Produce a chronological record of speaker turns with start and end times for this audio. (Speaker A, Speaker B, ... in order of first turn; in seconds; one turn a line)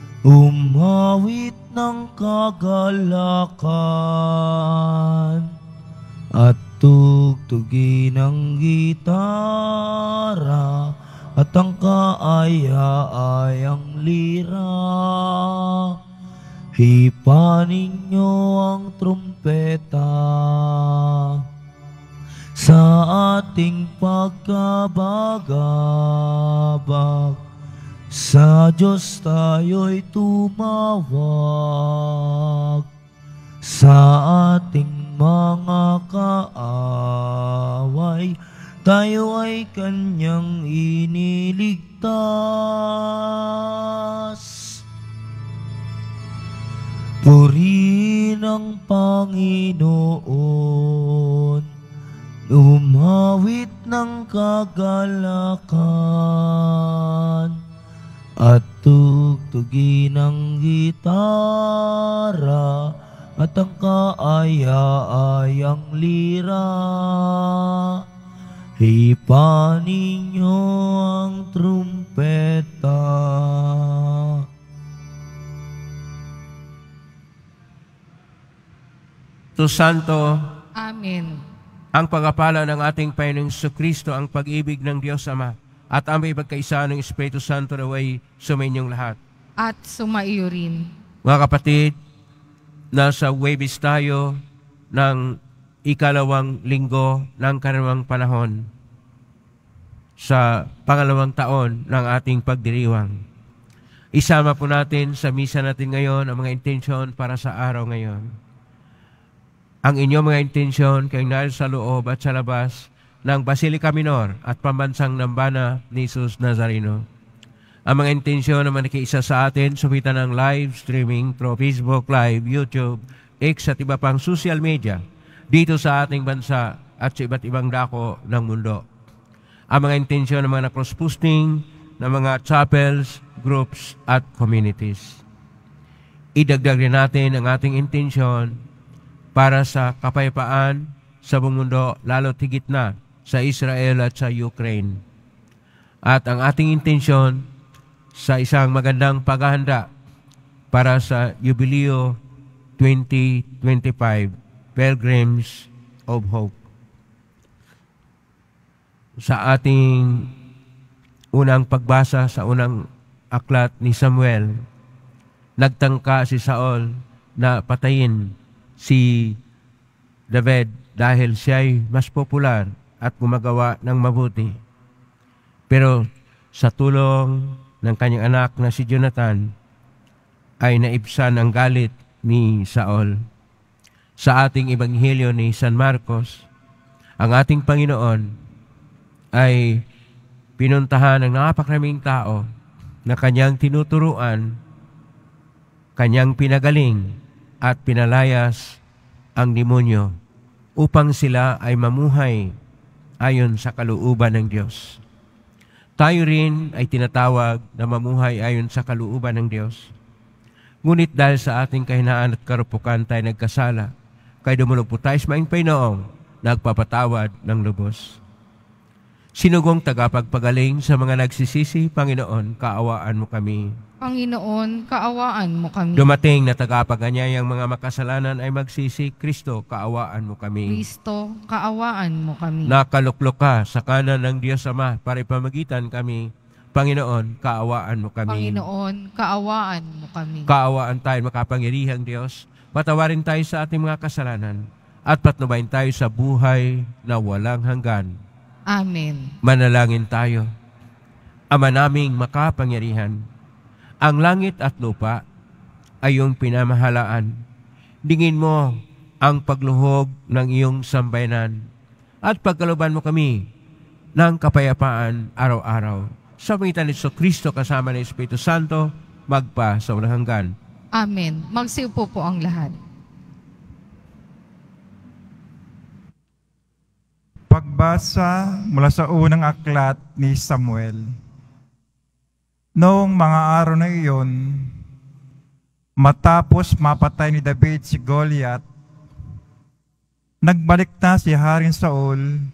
Speaker A: 0.2-5.5
Speaker A: 6.3-16.0
Speaker A: 16.8-21.4
Speaker A: 22.6-27.4
Speaker A: 28.1-32.8
Speaker A: 33.6-44.8
Speaker A: 47.2-51.6
Speaker A: 52.5-57.5
Speaker A: 58.4-68.0
Speaker A: 68.8-74.4
Speaker B: 79.6-80.4
Speaker C: 80.8-81.4
Speaker B: 81.9-89.2
Speaker C: 89.6-90.9
Speaker B: 91.2-91.9
Speaker B: 92.9-94.4
Speaker B: 94.9-98.6
Speaker B: 100.2-103.1
Speaker B: 104.1-108.2
Speaker B: 109.8-117.0
Speaker B: 117.9-128.8
Speaker B: 129.7-135.2
Speaker B: 136.3-138.6
Speaker B: 139.3-145.0
Speaker B: 146.1-147.4
Speaker B: 148.1-149.9
Speaker B: 150.7-152.2
Speaker B: 152.8-156.6
Speaker B: 159.2-160.3
Speaker B: 161.3-164.5
Speaker B: 165.6-169.4
Speaker B: 170.3-174.6
Speaker B: 175.7-179.4
Speaker B: 180.6-183.1
Speaker B: 184.2-186.4
Speaker B: 187.2-188.3
Speaker B: 189.3-189.8
Speaker B: 190.6-192.4
Speaker B: 193.1-194.5
Speaker B: 196.0-198.8
Speaker B: 199.4-200.1
Speaker B: 200.8-202.5
Speaker B: 203.2-205.0
Speaker B: 206.0-209.9
Speaker B: 210.8-213.9
Speaker B: 214.4-218.2
Speaker B: 219.3-223.7
Speaker C: 224.0-226.1
Speaker B: 225.9-230.8
Speaker C: 230.7-232.8
Speaker B: 232.7-238.6
Speaker C: 238.3-240.5
Speaker B: 240.5-248.1
Speaker C: 248.7-249.3
Speaker B: 249.4-250.4
Speaker B: 251.5-253.2
Speaker B: 254.0-255.2
Speaker B: 256.0-257.3
Speaker B: 258.0-261.6
Speaker B: 262.2-263.4
Speaker B: 264.2-270.5
Speaker C: 270.9-272.8
Speaker D: 277.5-281.1
Speaker D: 282.8-284.7
Speaker D: 286.0-288.6
Speaker D: 290.4-292.2